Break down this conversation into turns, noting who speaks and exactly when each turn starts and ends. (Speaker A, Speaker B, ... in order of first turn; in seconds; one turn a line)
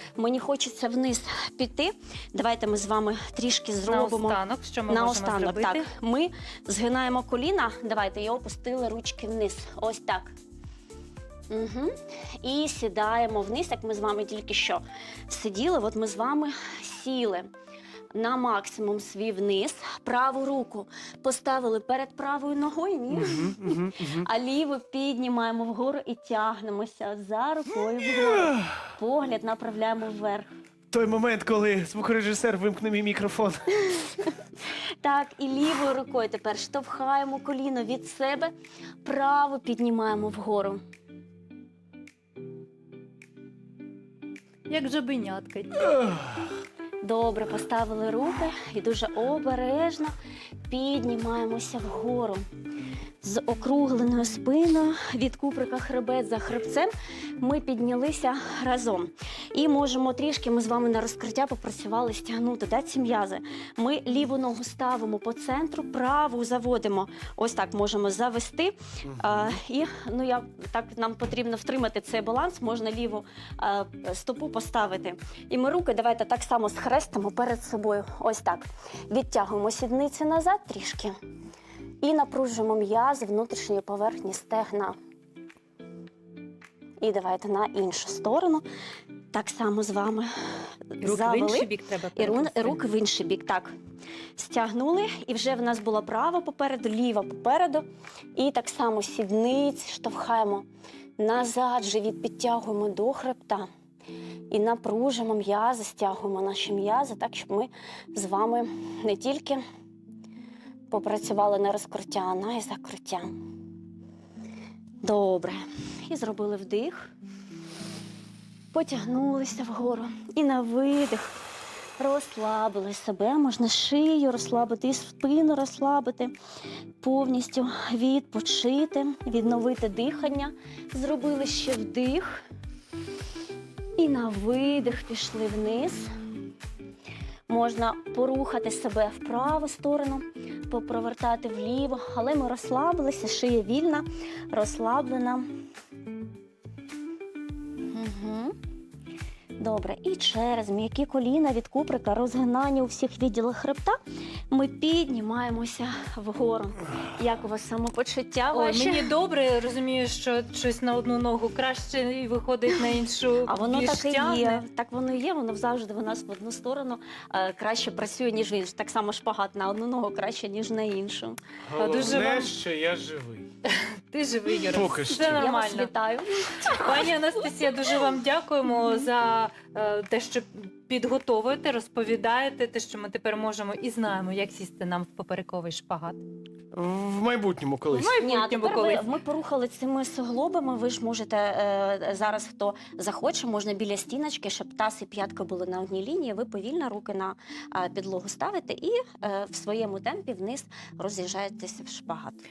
Speaker A: 0.2-10.3
Speaker B: 3.9-5.8
Speaker A: 11.5-17.5
Speaker A: 18.1-30.5
Speaker C: 23.1-24.3
Speaker C: 28.2-28.8
Speaker C: 30.9-33.7
Speaker A: 33.8-34.4
Speaker A: 35.0-38.5
Speaker A: 39.0-40.8
Speaker B: 44.7-45.9
Speaker A: 47.0-50.1
Speaker A: 50.7-52.4
Speaker A: 53.2-81.1
Speaker A: 82.0-85.0
Speaker A: 87.0-88.6
Speaker A: 89.3-90.3
Speaker A: 90.9-93.7
Speaker B: 91.0-92.9
Speaker A: 94.4-97.8
Speaker A: 98.3-100.7
Speaker A: 101.2-103.7
Speaker A: 104.5-109.6
Speaker A: 110.9-113.3
Speaker A: 115.0-117.1
Speaker A: 118.7-121.3
Speaker A: 122.0-126.3
Speaker A: 127.0-132.4
Speaker A: 134.0-136.1
Speaker A: 137.5-145.5
Speaker A: 147.9-148.6
Speaker A: 149.6-154.0
Speaker A: 154.5-159.1
Speaker B: 158.5-164.6
Speaker A: 163.5-172.1
Speaker C: 171.7-173.5
Speaker B: 171.8-172.5
Speaker B: 173.7-175.9
Speaker C: 174.7-175.5
Speaker A: 175.1-177.1
Speaker B: 176.7-186.2
Speaker C: 186.7-188.2
Speaker B: 187.9-189.1
Speaker A: 188.2-202.4